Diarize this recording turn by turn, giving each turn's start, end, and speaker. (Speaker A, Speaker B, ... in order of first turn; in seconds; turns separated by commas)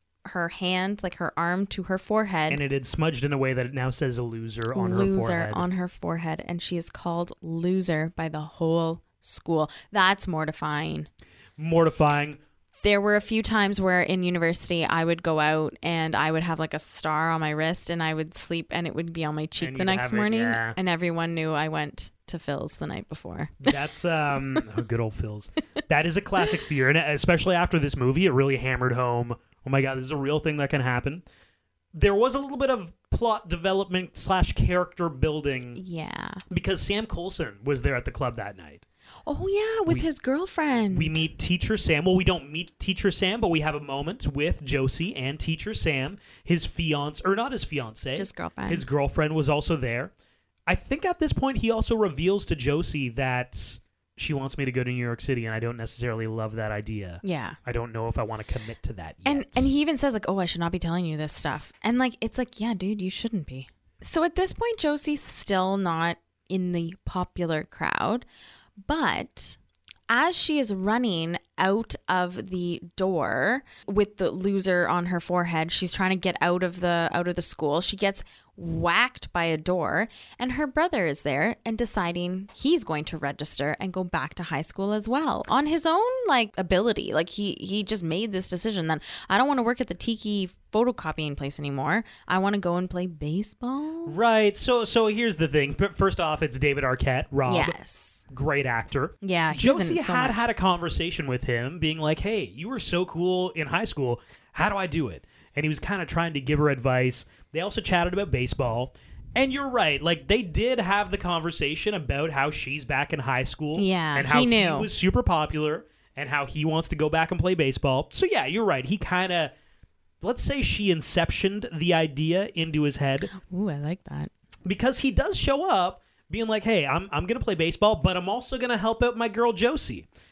Speaker A: 0.2-2.6, Speaker B: 2.5-5.7, Speaker A: 4.7-11.1, Speaker B: 11.6-12.4, Speaker A: 12.8-23.7, Speaker B: 19.6-20.8, Speaker B: 23.6-31.2, Speaker B: 31.9-35.8, Speaker A: 35.8-36.4, Speaker B: 36.5-38.8, Speaker A: 39.3-41.3, Speaker B: 40.9-50.1, Speaker A: 48.1-48.9, Speaker B: 50.7-59.7, Speaker A: 57.2-57.6, Speaker A: 59.2-68.3, Speaker A: 68.8-69.6, Speaker A: 70.1-94.2, Speaker B: 94.1-97.8, Speaker A: 97.5-98.2, Speaker B: 98.3-119.5, Speaker A: 99.2-100.4, Speaker A: 113.8-114.9, Speaker B: 120.2-123.3, Speaker A: 123.3-124.3, Speaker B: 124.7-130.1